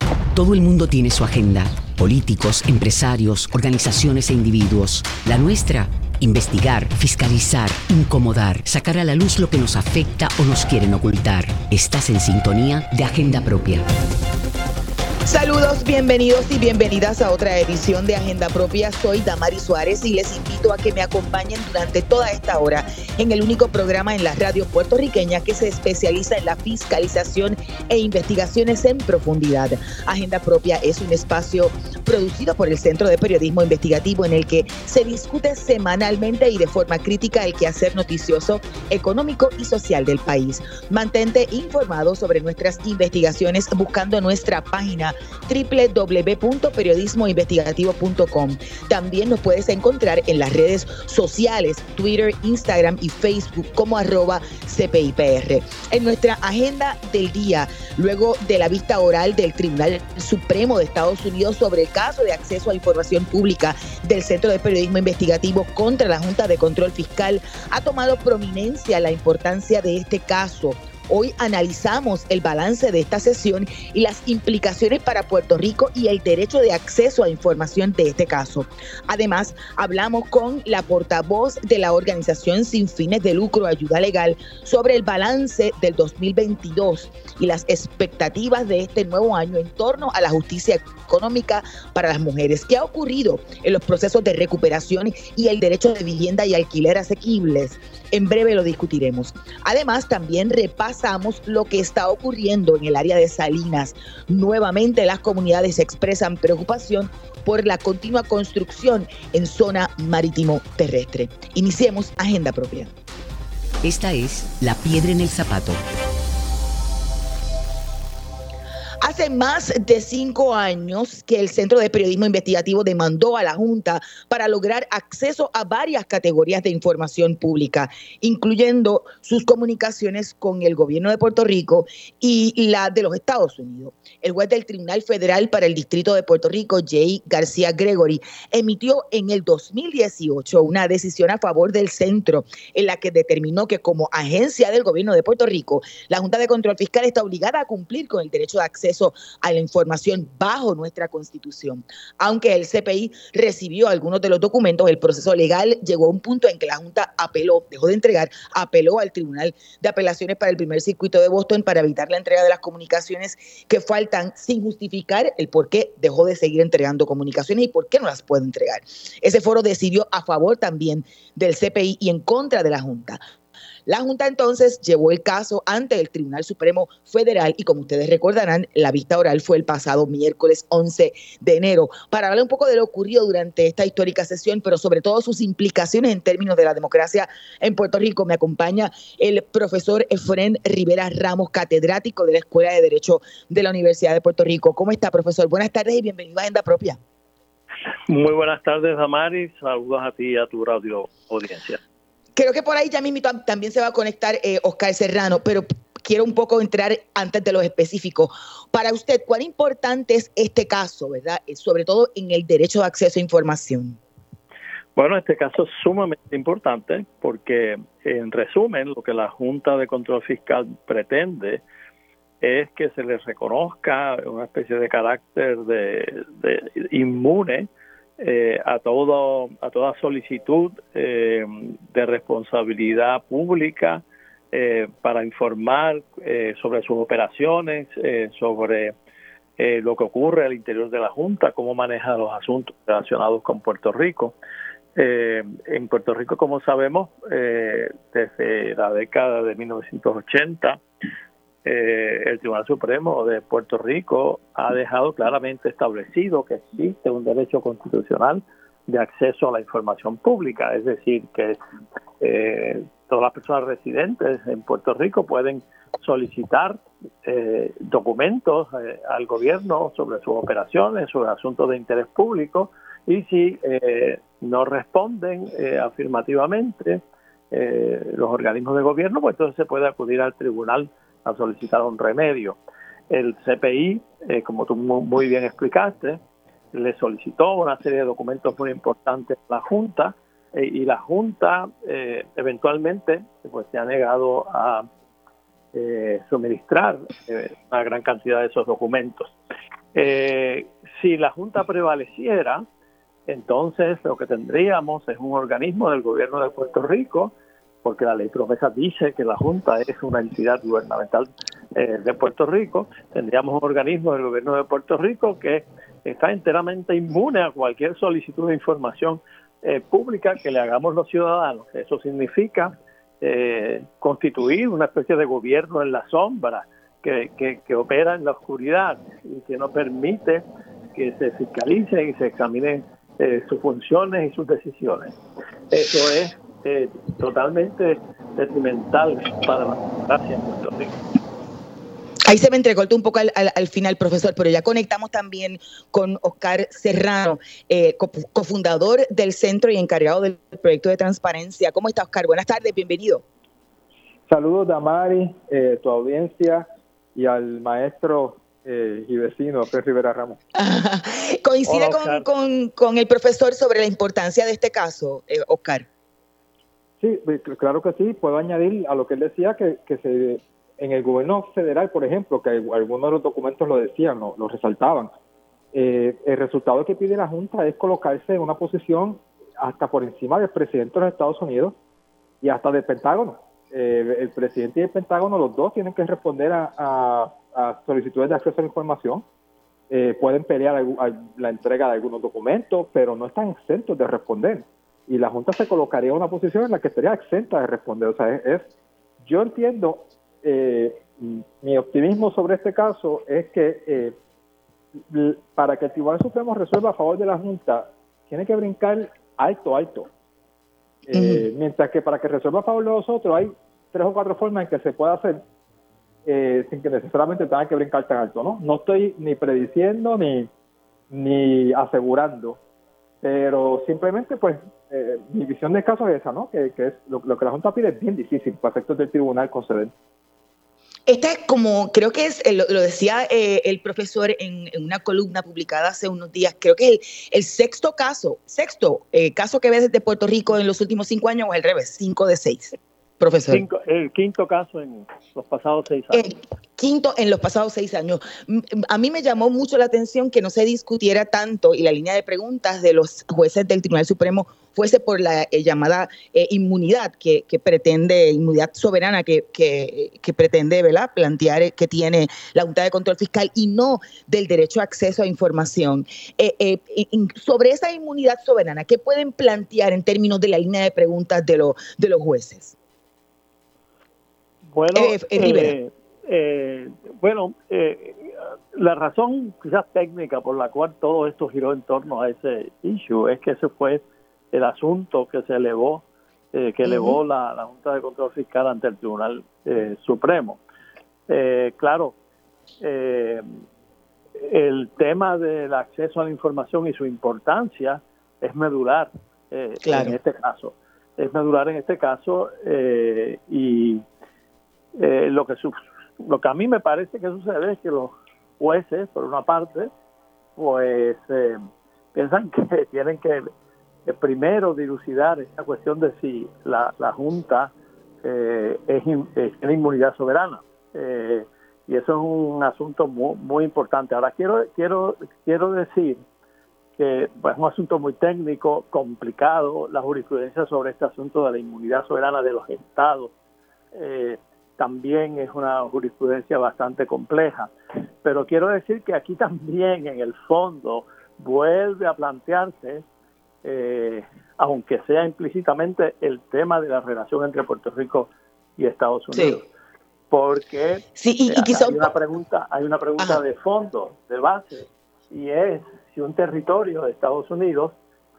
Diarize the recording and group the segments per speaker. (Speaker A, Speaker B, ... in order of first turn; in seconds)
Speaker A: 0.3-13.9, 113.8-115.8
Speaker B: 15.2-112.9, 119.0-173.2, 173.9-197.0, 202.4-214.0, 342.3-353.2, 360.6-365.9, 411.1-411.4, 431.1-443.6, 446.1-472.8, 474.9-475.8, 486.9-487.2, 499.9-500.1, 549.3-549.6, 551.2-552.1
Speaker C: 198.1-201.8, 215.0-221.6, 222.4-238.9, 239.6-244.3, 244.9-250.8, 251.6-261.6, 262.2-282.6, 283.1-286.2, 286.7-294.9, 295.7-299.4, 299.9-302.6, 303.3-330.4, 330.9-335.1, 335.7-341.0, 361.7-362.3, 443.5-446.2, 474.7-490.6, 491.3-492.1, 492.8-493.5, 494.4-504.0, 504.9-509.9, 510.6-511.6, 512.1-513.5, 514.0-517.7, 518.2-526.2, 527.0-533.3, 533.9-537.7, 538.2-543.0, 543.6-549.7, 550.3-558.0
Speaker D: 354.3-360.4, 367.0-375.1, 375.7-381.8, 382.4-389.2, 389.9-398.7, 399.2-404.2, 405.1-410.1, 411.1-415.4, 416.2-420.5, 421.1-422.6, 423.2-429.9